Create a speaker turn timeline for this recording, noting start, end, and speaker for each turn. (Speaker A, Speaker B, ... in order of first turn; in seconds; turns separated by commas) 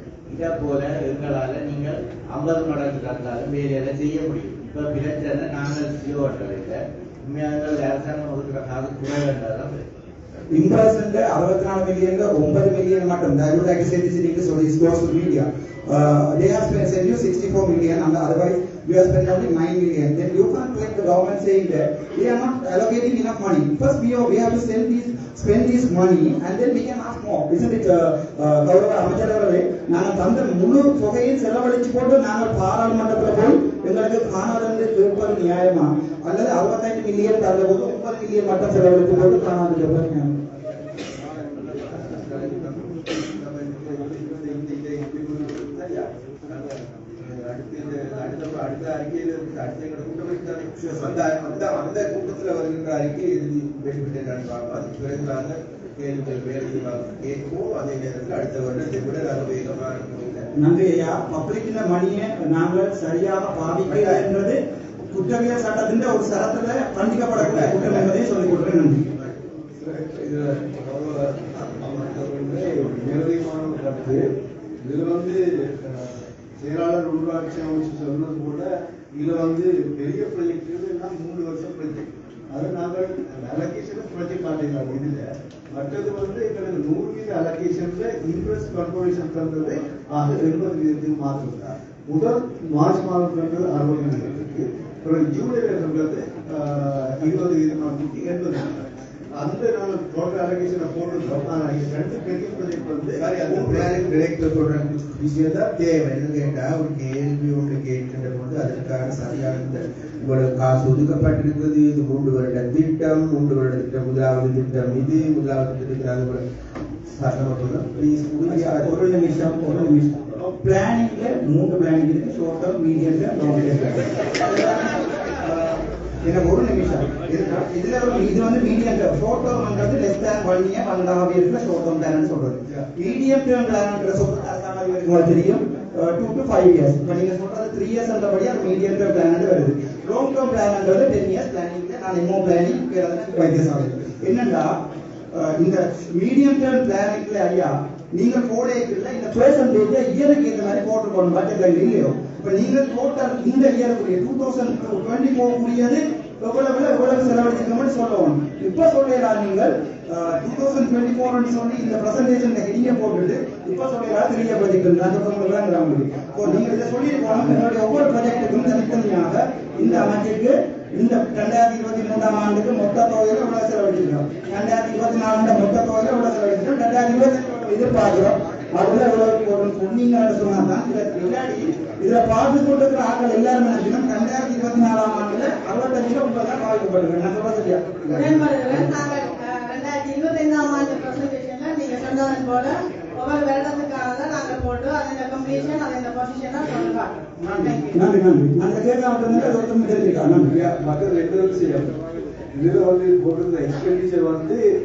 Speaker A: 0.3-9.8, Speaker B: 10.5-40.3, Speaker C: 41.3-60.5, Speaker B: 60.6-69.0, Speaker C: 67.4-67.9, Speaker D: 69.8-74.2, Speaker D: 74.8-98.8, Speaker D: 99.3-104.2, Speaker C: 103.4-116.4, Speaker C: 117.1-118.9, Speaker B: 118.4-144.7, Speaker B: 145.3-188.2, Speaker E: 188.2-197.2, Speaker B: 197.4-200.6, Speaker D: 199.3-199.6, Speaker D: 200.4-201.9, Speaker D: 202.5-204.6